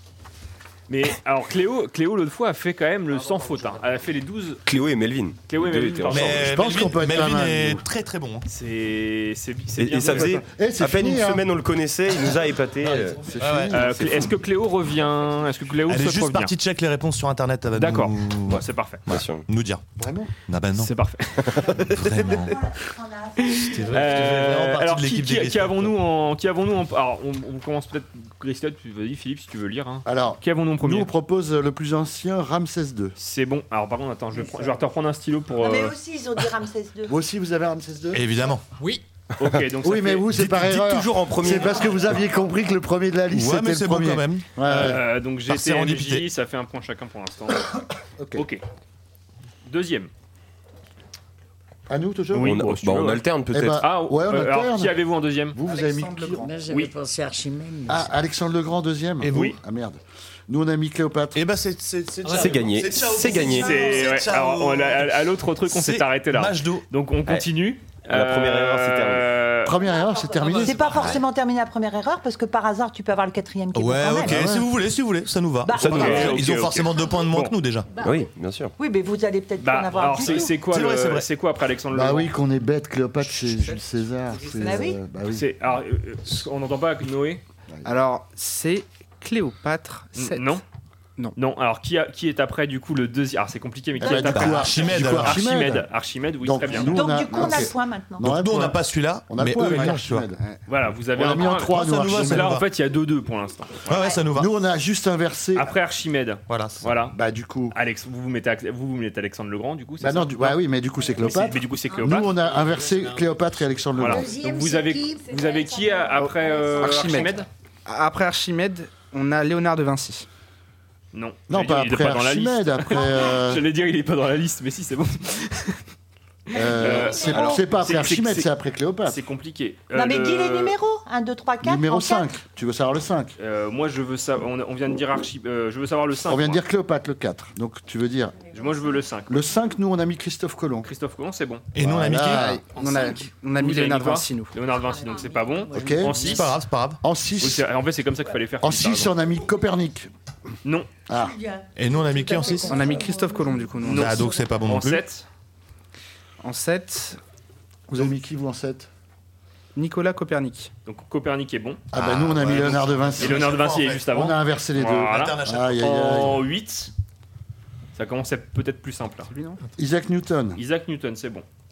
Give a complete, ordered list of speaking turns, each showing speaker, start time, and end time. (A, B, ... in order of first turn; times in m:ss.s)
0:00.9-0:04.6 A
0:03.1-0:04.0 B
0:04.6-0:06.5 C
0:05.5-0:06.5 A
0:06.1-0:08.4 B
0:06.3-0:07.8 D
0:08.5-0:10.4 A
0:09.8-0:13.3 C
0:10.3-0:11.4 D
0:13.1-0:14.3 D
0:13.3-0:13.9 B
0:13.7-0:16.5 A
0:15.9-0:19.8 B
0:17.8-0:19.0 A
0:19.1-0:19.5 C
0:20.0-0:20.3 D
0:20.4-0:20.9 B
0:20.8-0:22.0 A
0:21.5-0:22.0 C
0:21.8-0:22.6 B
0:22.2-0:24.0 E
0:23.4-0:31.1 A
0:23.7-0:25.9 B
0:30.1-0:33.2 D
0:33.2-0:36.0 A
0:35.6-0:37.2 E
0:37.1-0:38.3 D
0:38.1-0:38.6 B
0:39.4-0:40.3 A
0:39.8-0:45.0 D
0:40.3-0:41.0 B
0:40.7-0:42.2 C
0:43.3-0:46.3 B
0:44.7-0:47.7 A
0:48.2-0:48.5 D
0:48.4-0:48.6 A
0:49.7-0:50.1 A
0:51.9-0:52.6 D
0:52.3-0:55.6 A
0:52.3-0:53.8 C
0:53.5-0:55.0 D
0:55.5-0:56.6 D
0:55.7-0:58.1 F
0:56.7-0:56.9 A
0:57.9-1:01.4 D
0:59.2-0:59.6 B
1:01.4-1:06.8 B
1:02.2-1:03.8 C
1:03.4-1:09.8 A
1:08.1-1:09.3 C
1:09.6-1:11.1 D
1:10.5-1:14.4 E
1:10.8-1:11.2 B
1:13.7-1:17.9 B
1:14.3-1:14.7 D
1:15.6-1:16.2 E
1:15.8-1:16.4 C
1:15.8-1:17.5 A
1:18.0-1:18.7 C
1:18.8-1:20.6 E
1:19.6-1:22.3 A
1:20.5-1:21.3 B
1:21.9-1:25.5 D
1:24.6-1:25.0 E
1:25.3-1:27.4 A
1:27.7-1:28.0 D
1:27.8-1:30.6 G
1:30.2-1:30.6 A
1:31.4-1:37.1 A
1:34.0-1:35.9 D
1:34.0-1:35.4 B
1:36.4-1:40.4 D
1:36.8-1:38.3 E
1:38.2-1:40.3 B
1:39.7-1:40.0 A
1:40.7-1:44.0 A
1:41.1-1:42.6 D
1:41.3-1:42.7 B
1:43.9-1:44.5 B
1:44.3-1:45.7 D
1:45.6-1:47.2 A
1:46.5-1:46.9 B
1:47.1-1:47.8 D
1:47.7-1:50.6 A
1:50.0-1:54.3 D
1:51.2-1:52.4 A
1:54.0-1:57.5 A
1:54.0-1:55.6 F
1:56.2-2:00.3 G
2:01.1-2:05.8 A
2:01.5-2:03.6 D
2:06.5-2:08.5 A
2:06.5-2:09.2 D
2:09.0-2:10.8 A
2:09.9-2:12.3 E
2:11.6-2:13.4 D
2:13.4-2:16.6 A
2:16.2-2:18.4 D
2:18.5-2:19.4 A
2:19.3-2:20.9 D
2:20.8-2:21.7 A
2:21.7-2:22.6 B
2:21.8-2:22.7 D
2:22.4-2:24.6 G
2:23.6-2:26.6 A
2:25.7-2:26.0 F
2:25.7-2:26.3 D
2:26.1-2:27.0 B
2:27.0-2:27.7 D
2:27.4-2:29.2 A
2:28.6-2:30.1 D
2:30.6-2:30.9 A
2:31.1-2:31.4 D
2:31.1-2:34.4 F
2:31.8-2:32.8 B
2:32.7-2:34.1 G
2:33.8-2:35.0 B
2:33.8-2:35.3 A
2:36.4-2:37.2 G
2:37.9-2:38.9 D
2:39.8-2:40.7 G
2:40.9-2:41.8 A
2:41.9-2:43.5 D
2:41.9-2:44.1 B
2:43.2-2:46.9 A
2:44.1-2:46.4 D
2:45.0-2:46.3 B
2:48.0-2:49.3 A
2:49.3-2:49.6 G
2:49.8-2:50.6 D
2:50.6-2:51.4 A